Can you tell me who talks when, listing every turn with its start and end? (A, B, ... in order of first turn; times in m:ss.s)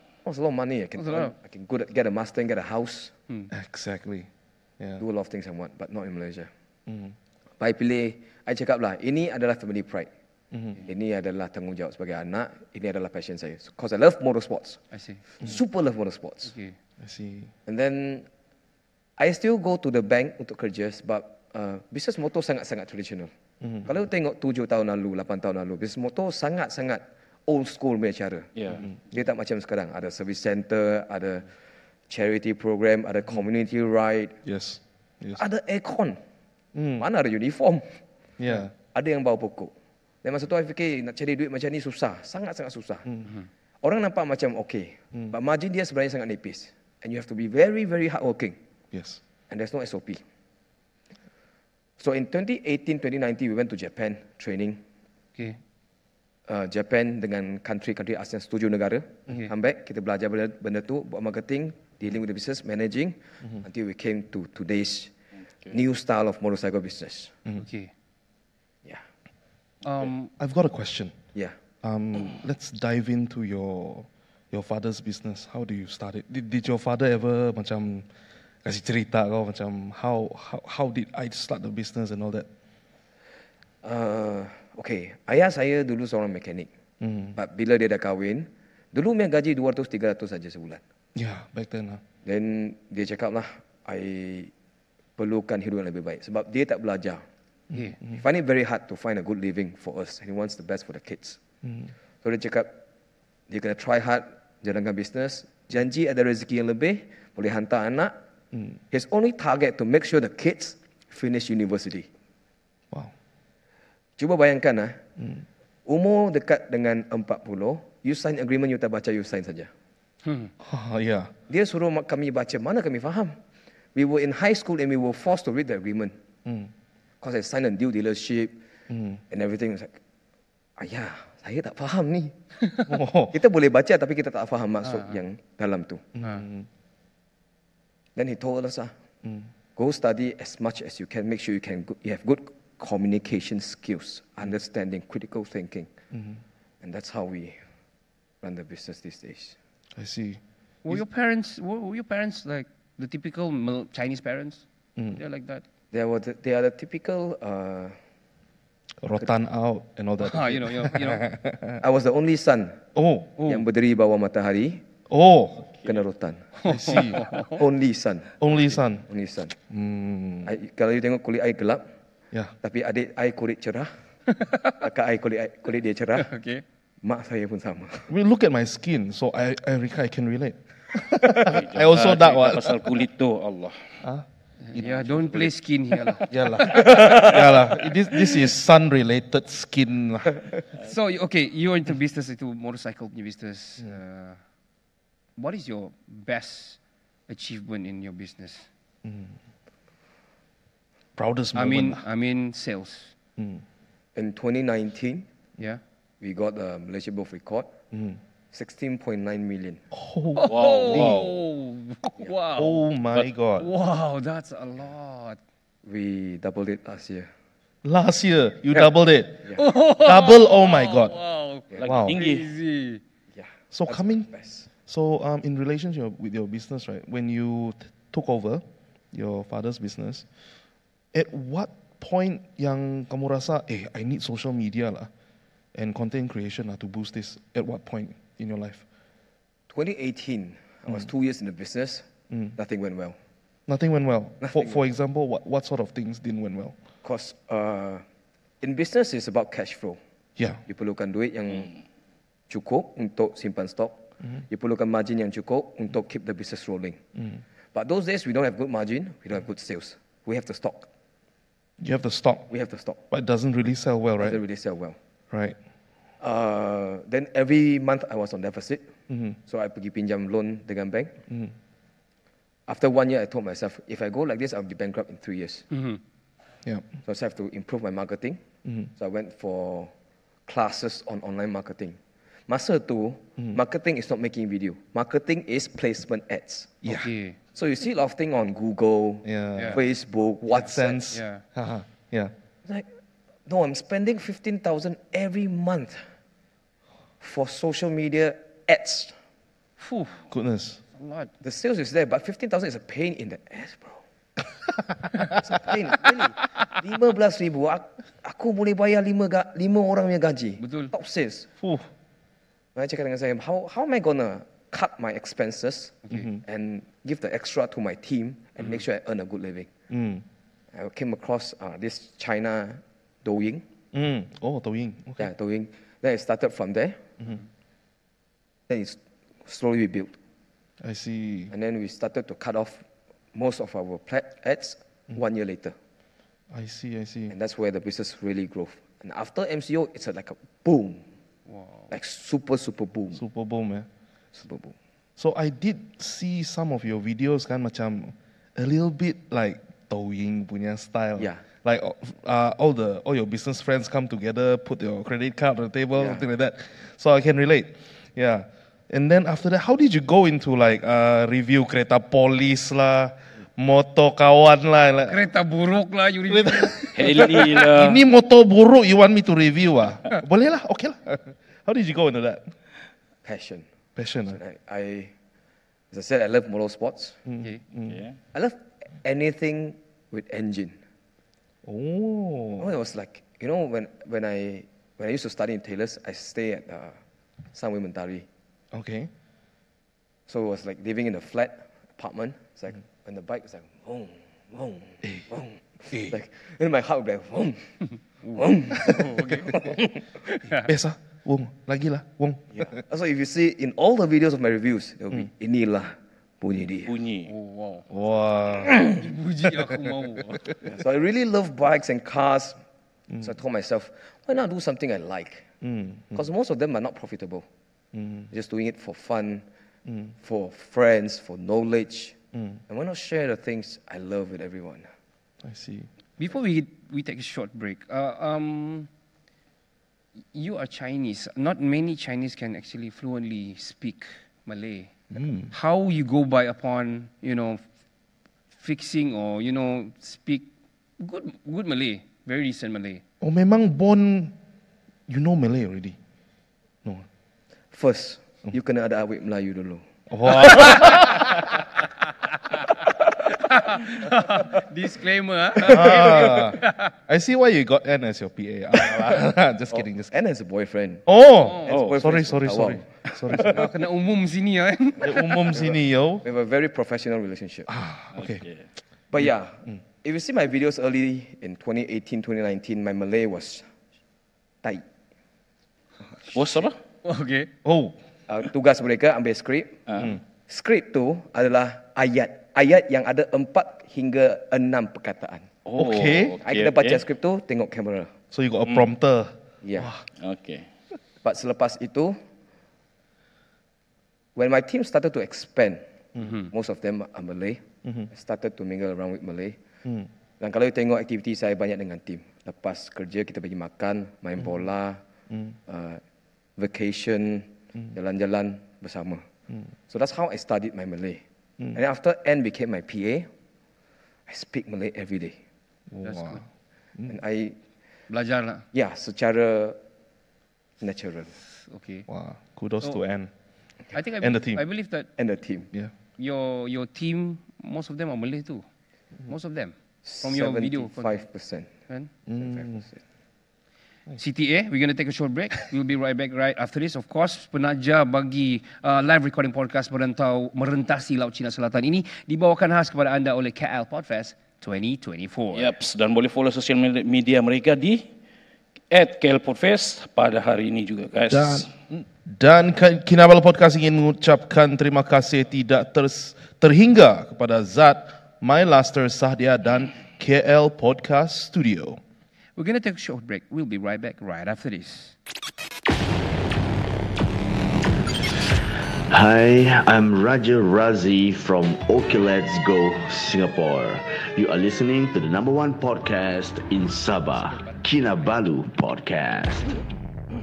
0:00.2-0:03.1 A
0:01.0-0:01.4 B
0:03.5-0:04.3 C
0:04.8-0:05.0 C
0:05.0-0:06.5 A
0:06.9-0:07.2 C
0:07.6-0:10.1 A
0:10.5-0:10.8 C
0:10.8-0:14.8 A
0:14.9-0:15.2 B
0:15.4-0:16.5 A
0:16.4-0:16.8 B
0:17.0-0:17.5 C
0:17.7-0:18.3 A
0:19.2-0:23.3 A
0:23.6-0:23.9 C
0:23.8-0:28.5 A
0:29.1-0:31.5 A
0:32.1-0:34.4 A
0:34.4-0:35.4 C
0:35.4-0:36.2 A
0:36.8-0:37.1 C
0:37.0-0:37.9 A
0:38.4-0:38.7 C
0:38.9-0:39.7 A
0:40.2-0:43.1 A
0:43.8-0:48.6 A
0:48.9-0:49.2 C
0:49.5-0:50.2 A
0:52.0-0:54.8 A
0:56.5-1:05.1 A
1:05.7-1:07.3 A
1:07.6-1:07.9 B
1:09.8-1:10.3 B
1:10.4-1:11.2 C
1:11.8-1:18.1 C
1:18.6-1:22.5 C
1:23.8-1:26.7 A
1:27.0-1:27.4 C
1:27.4-1:30.8 A
1:31.2-1:32.0 C
1:32.2-1:34.5 A
1:35.2-1:37.2 A
1:37.7-1:38.2 C
1:38.1-1:41.4 A
1:41.6-1:41.9 C
1:42.2-1:42.7 A
1:43.5-1:48.2 A
1:48.9-1:52.1 A
1:54.2-1:55.0 A
1:55.2-1:55.4 C
1:55.9-1:59.7 A
2:00.2-2:00.5 B
2:00.6-2:01.3 C
2:01.5-2:03.4 A
2:04.0-2:06.2 A
2:06.4-2:06.7 C
2:07.2-2:08.6 A
2:08.9-2:09.2 C
2:09.3-2:10.0 A
2:10.8-2:12.3 A
2:12.9-2:13.4 C
2:13.3-2:16.1 A
2:14.8-2:15.2 B
2:16.2-2:16.7 C
2:16.2-2:16.5 B
2:18.2-2:18.9 A
2:19.2-2:19.5 C
2:19.8-2:25.9 A
2:26.1-2:26.4 C
2:26.8-2:27.6 A
2:28.4-2:29.6 A
2:30.0-2:31.0 C
2:30.8-2:35.6 B
2:35.9-2:38.0 A
2:39.0-2:41.8 C
2:40.2-2:41.2 B
2:41.8-2:42.9 A
2:43.0-2:43.4 C
2:43.4-2:43.6 B
2:43.4-2:44.8 A
2:45.1-2:45.7 C
2:45.8-2:46.5 A
2:46.6-2:47.6 B
2:46.7-2:47.2 C
2:47.1-2:49.5 A
2:48.4-2:50.5 C
2:50.4-2:51.9 A
2:52.6-2:53.9 A
2:54.3-2:54.8 B
2:54.8-2:56.3 A
2:56.2-2:56.6 B
2:57.0-2:58.1 A
2:58.1-3:03.0 C
3:01.4-3:04.0 D
3:04.7-3:06.3 B
3:04.8-3:05.5 D
3:06.3-3:10.4 C
3:06.6-3:07.5 A
3:10.8-3:14.4 B
3:15.4-3:18.7 B
3:19.0-3:19.4 C
3:21.2-3:22.0 C
3:21.6-3:23.1 B
3:23.4-3:23.6 C
3:24.2-3:25.3 A
3:26.2-3:27.7 A
3:27.9-3:28.2 C
3:28.5-3:29.8 A
3:29.9-3:31.3 C
3:30.4-3:32.8 B
3:30.5-3:31.3 D
3:32.6-3:33.7 C
3:33.6-3:35.4 B
3:35.9-3:37.3 A
3:37.8-3:41.2 C
3:39.6-3:43.0 B
3:41.8-3:42.5 D
3:41.8-3:42.2 C
3:43.3-3:44.7 A
3:43.7-3:50.3 C
3:51.1-3:55.1 C
3:55.8-3:58.8 C
3:59.7-4:03.2 A
4:03.7-4:06.8 C
4:04.4-4:04.8 A
4:07.0-4:08.0 A
4:08.6-4:10.0 A
4:10.4-4:10.6 C
4:10.7-4:11.7 A
4:12.5-4:17.0 A
4:17.7-4:20.9 A
4:21.8-4:22.5 C
4:22.5-4:23.0 A
4:23.1-4:24.4 C
4:24.2-4:25.0 A
4:25.3-4:25.6 C
4:26.2-4:28.9 A
4:29.1-4:29.4 C
4:29.5-4:31.2 A
4:31.3-4:31.5 C
4:32.7-4:35.7 A
4:35.7-4:36.0 B
4:37.0-4:38.4 A
4:38.6-4:38.9 C
4:39.0-4:39.9 A
4:40.5-4:46.8 A
4:46.8-4:47.1 C
4:46.8-4:47.4 B
4:47.6-4:51.2 A
4:49.2-4:49.8 C
4:50.5-4:52.3 C
4:51.1-4:51.4 B
4:53.5-4:56.0 A
4:57.2-4:59.2 A
4:59.8-5:00.3 B
5:00.3-5:00.8 C
5:01.0-5:01.3 B
5:01.4-5:04.0 A
5:04.8-5:05.3 C
5:05.2-5:11.5 A
5:10.6-5:10.9 B
5:11.6-5:11.9 C
5:12.8-5:19.7 A
5:16.1-5:16.4 C
5:19.9-5:20.2 C
5:20.7-5:23.7 A
5:23.9-5:25.3 C
5:25.2-5:27.0 A
5:28.7-5:30.2 A
5:30.8-5:31.5 C
5:31.5-5:35.8 A
5:36.5-5:37.4 C
5:37.3-5:41.1 A
5:41.5-5:41.9 B
5:41.9-5:43.2 A
5:43.1-5:43.9 C
5:44.3-5:44.8 A
5:45.2-6:05.3 C
5:51.2-5:51.4 A
5:56.0-5:56.2 A
6:05.1-6:07.5 B
6:06.3-6:12.5 C
6:07.0-6:08.0 D
6:13.2-6:13.7 A
6:14.0-6:14.4 C
6:14.3-6:15.1 A
6:15.9-6:17.2 A
6:17.3-6:18.0 C
6:17.9-6:18.2 D
6:18.3-6:20.8 A
6:21.6-6:22.7 C
6:22.6-6:27.0 A
6:27.5-6:28.3 A
6:28.7-6:29.1 C
6:30.3-6:37.8 A
6:38.2-6:39.6 B
6:38.3-6:40.0 A
6:40.2-6:40.7 B
6:40.6-6:42.8 C
6:42.6-6:46.9 A
6:46.8-6:47.3 D
6:47.3-6:47.9 B
6:47.9-6:49.0 C
6:48.8-6:50.5 B
6:50.6-6:52.6 A
6:53.2-6:55.5 A
6:55.6-6:56.3 C
6:56.1-6:57.5 A
6:57.9-6:58.3 C
6:58.3-6:59.4 A
6:59.9-7:00.2 C
7:00.2-7:02.2 A
7:02.4-7:02.6 C
7:02.7-7:04.9 A
7:05.4-7:05.9 C
7:06.2-7:08.9 B
7:10.3-7:14.9 B
7:15.1-7:15.5 C
7:15.5-7:17.6 B
7:18.6-7:20.5 B
7:21.0-7:23.0 B
7:23.2-7:24.4 C
7:25.1-7:26.0 C
7:27.7-7:29.8 A
7:30.1-7:31.3 C
7:32.6-7:36.9 B
7:35.6-7:40.1 C
7:40.1-7:43.7 A
7:41.1-7:43.7 C
7:41.4-7:41.7 B
7:41.7-7:42.0 D
7:43.3-7:45.5 B
7:45.0-7:46.2 C
7:45.5-7:47.7 A
7:47.7-7:48.4 C
7:48.2-7:48.6 D
7:49.1-7:53.6 A
7:49.2-7:49.8 C
7:56.3-7:56.8 D
7:57.0-7:57.5 B
7:57.6-7:58.0 C
7:58.3-8:05.5 A
8:05.6-8:07.0 D
8:05.8-8:06.4 C
8:06.4-8:08.2 A
8:08.3-8:10.0 C
8:09.6-8:10.0 A
8:10.2-8:10.6 D
8:11.2-8:12.2 A
8:14.4-8:19.6 A
8:16.2-8:16.5 B
8:20.4-8:25.0 A
8:25.3-8:25.6 C
8:25.7-8:26.0 A
8:26.6-8:29.3 A
8:29.9-8:33.3 A
8:34.3-8:35.4 A
8:35.9-8:36.4 C
8:36.0-8:36.4 B
8:37.1-8:37.6 A
8:38.1-8:38.7 B
8:38.7-8:39.8 A
8:40.8-8:41.3 A
8:41.6-8:42.1 B
8:42.1-8:43.3 C
8:43.9-8:45.1 B
8:44.2-8:44.6 C
8:45.2-8:45.7 A
8:46.2-8:48.6 B
8:49.3-8:51.3 B
8:50.0-8:51.7 A
8:51.9-8:52.6 B
8:52.3-8:52.8 C
8:52.6-8:53.0 A
8:54.2-9:05.7 B
9:05.5-9:08.1 D
9:08.9-9:11.7 D
9:11.3-9:22.0 C
9:22.6-9:25.2 B
9:29.1-9:39.8 E
9:37.4-9:38.4 B